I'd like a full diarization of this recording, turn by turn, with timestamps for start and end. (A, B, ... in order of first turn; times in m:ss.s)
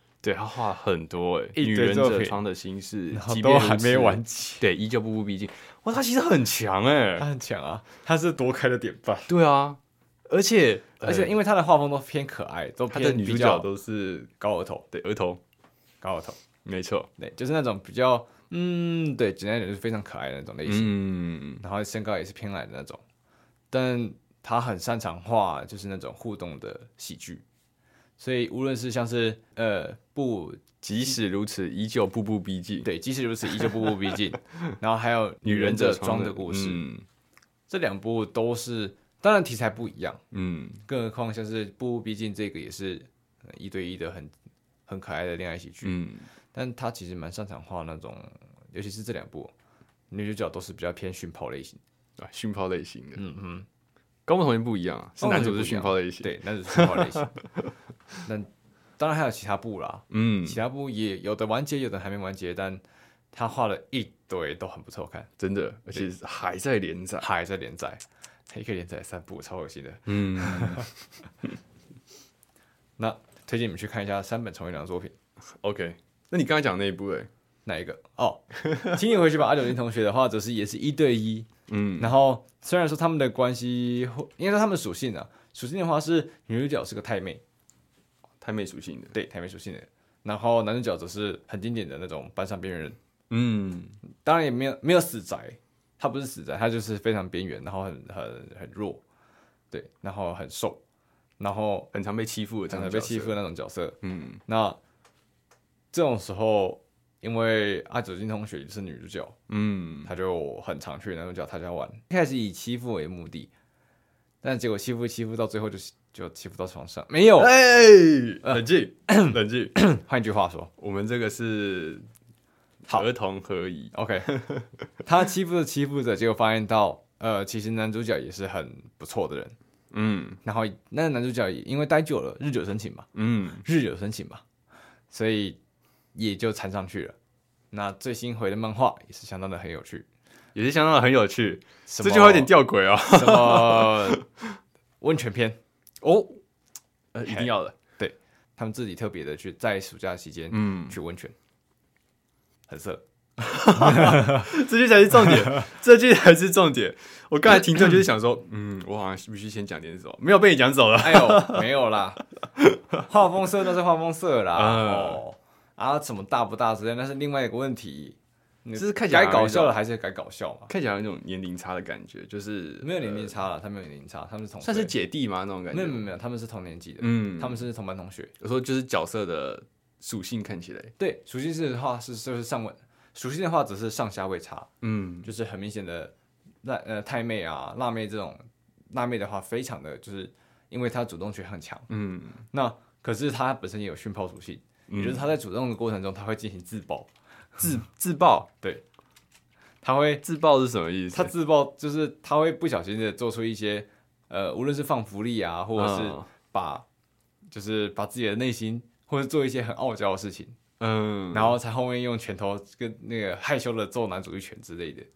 0:00.2-0:07.3 A
0:01.5-0:02.4 B
0:03.1-0:04.6 B
0:07.2-0:09.3 B
0:09.3-0:11.3 A
0:11.0-0:13.7 B
0:12.9-0:14.3 A
0:14.4-0:14.8 B
0:14.9-0:15.4 A
0:16.0-0:16.4 B
0:16.6-0:17.1 A
0:17.2-0:21.0 B
0:20.6-0:21.6 A
0:21.6-0:23.0 B
0:23.7-0:27.4 B
0:28.2-0:30.7 B
0:30.8-0:32.9 A
0:32.8-0:36.8 B
0:33.5-0:33.9 A
0:35.4-0:37.0 A
0:37.7-0:40.2 B
0:40.3-0:40.8 A
0:40.9-0:44.3 B
0:44.9-0:46.0 B
0:45.8-0:46.3 A
0:46.5-0:49.5 B
0:50.1-0:51.8 B
0:52.2-0:53.2 A
0:53.1-0:53.6 B
0:54.3-0:57.7 A
0:55.2-0:57.3 B
0:58.2-1:05.3 B
1:00.1-1:00.6 A
1:05.4-1:07.3 A
1:07.2-1:10.9 B
1:10.1-1:10.9 A
1:13.0-1:15.1 B
1:15.6-1:17.3 A
1:17.6-1:21.5 B
1:21.7-1:22.1 A
1:22.0-1:27.4 B
1:28.4-1:29.2 A
1:29.1-1:33.0 B
1:33.3-1:34.0 A
1:34.1-1:39.0 B
1:39.7-1:40.8 B
1:41.4-1:41.9 B
1:41.9-1:43.4 A
1:42.7-1:44.8 B
1:44.0-1:44.4 A
1:45.9-1:49.4 B
1:49.5-1:50.1 A
1:50.0-1:53.5 B
1:54.4-1:57.6 B
1:57.4-1:59.8 A
1:58.4-2:00.7 B
2:00.8-2:02.0 A
2:02.8-2:04.7 A
2:03.9-2:04.3 B
2:05.0-2:09.5 B
2:09.9-2:10.4 A
2:10.4-2:13.1 B
2:13.1-2:13.6 A
2:13.6-2:14.4 B
2:15.1-2:15.6 B
2:16.1-2:17.2 B
2:17.7-2:20.0 B
2:20.5-2:24.5 A
2:21.9-2:22.5 B
2:23.1-2:24.2 B
2:25.0-2:25.6 B
2:26.0-2:26.4 A
2:27.1-2:27.8 A
2:27.2-2:31.3 B
2:30.5-2:31.0 A
2:32.7-2:33.0 B
2:33.4-2:41.7 A
2:33.7-2:34.4 B
2:41.0-2:42.2 B
2:42.6-2:42.8 A
2:43.0-2:50.7 B
2:44.5-2:45.2 A
2:48.8-2:49.8 A
2:50.7-2:53.4 A
2:52.8-2:54.9 B
2:54.6-2:56.1 A
2:55.7-2:58.3 B
2:57.0-2:57.7 A
2:58.4-3:00.9 A
3:01.0-3:04.7 B
3:04.8-3:05.3 A
3:05.2-3:11.9 B
3:11.9-3:12.4 A
3:12.5-3:17.1 B
3:14.9-3:15.3 A
3:17.6-3:18.5 A
3:19.8-3:20.2 B
3:20.2-3:21.3 A
3:21.1-3:26.8 B
3:25.8-3:26.3 A
3:27.5-3:30.6 B
3:30.8-3:31.6 A
3:31.3-3:35.1 B